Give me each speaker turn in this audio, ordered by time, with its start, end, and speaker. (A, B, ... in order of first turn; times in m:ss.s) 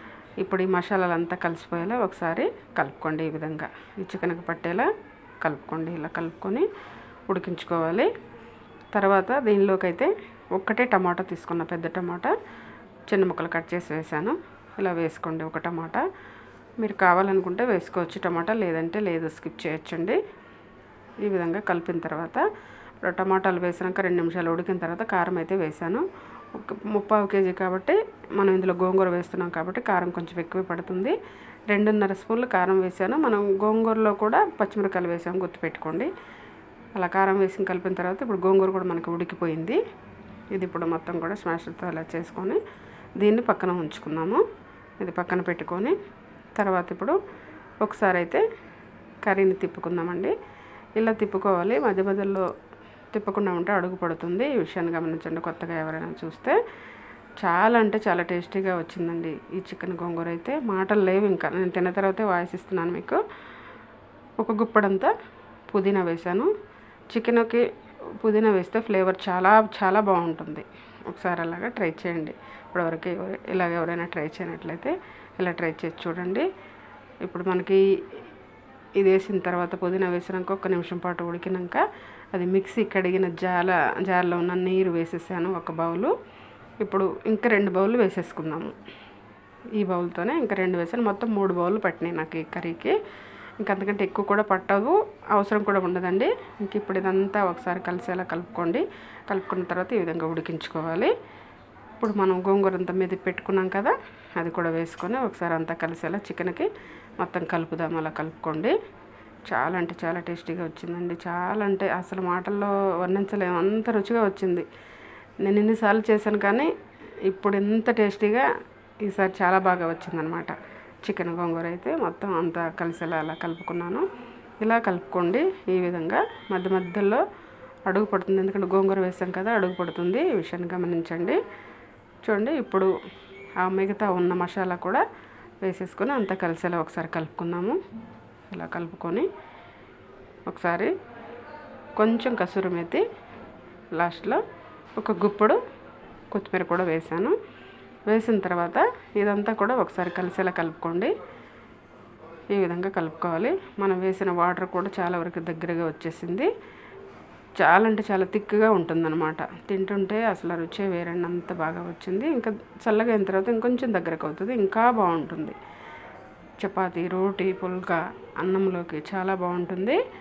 0:00.4-0:04.9 A
0:05.4-0:06.7 A
0:07.3-0:08.1 A
0:08.9-0:12.4 A
0:13.1-0:16.0 A
0:16.8-0:20.2 A
0:21.2-0:22.5 A
0:23.0-0:31.2 A
0:31.7-0:36.1 A
0:37.0-0:39.8 A
0:40.5-0:42.6 A
0:43.2-0:44.4 A
0:45.0-0:46.0 A
0:46.6-0:47.2 A
0:47.8-0:48.4 A
0:49.2-0:50.3 A
0:51.0-0:52.5 A
0:53.1-0:56.6 A
0:57.4-1:03.2 A
1:04.4-1:05.1 A
1:05.7-1:06.5 A
1:07.1-1:07.6 A
1:08.2-1:16.5 A
1:17.2-1:18.2 A
1:19.0-1:26.1 A
1:26.8-1:28.7 A
1:29.8-1:33.0 A
1:33.6-1:41.1 A
1:42.0-1:46.7 A
1:47.2-1:48.8 A
1:49.5-1:54.7 A
1:55.4-1:56.7 A
1:57.2-1:58.5 A
1:59.0-2:04.0 A
2:04.6-2:07.2 A
2:07.9-2:11.4 A
2:12.2-2:12.9 A
2:13.6-2:15.0 A
2:15.6-2:17.8 A
2:18.5-2:19.3 A
2:20.5-2:20.9 A
2:22.0-2:23.0 A
2:23.9-2:24.4 A
2:25.0-2:25.6 A
2:26.3-2:27.4 A
2:28.1-2:31.1 A
2:32.5-2:36.5 A
2:37.6-2:45.6 A
2:46.6-2:50.0 A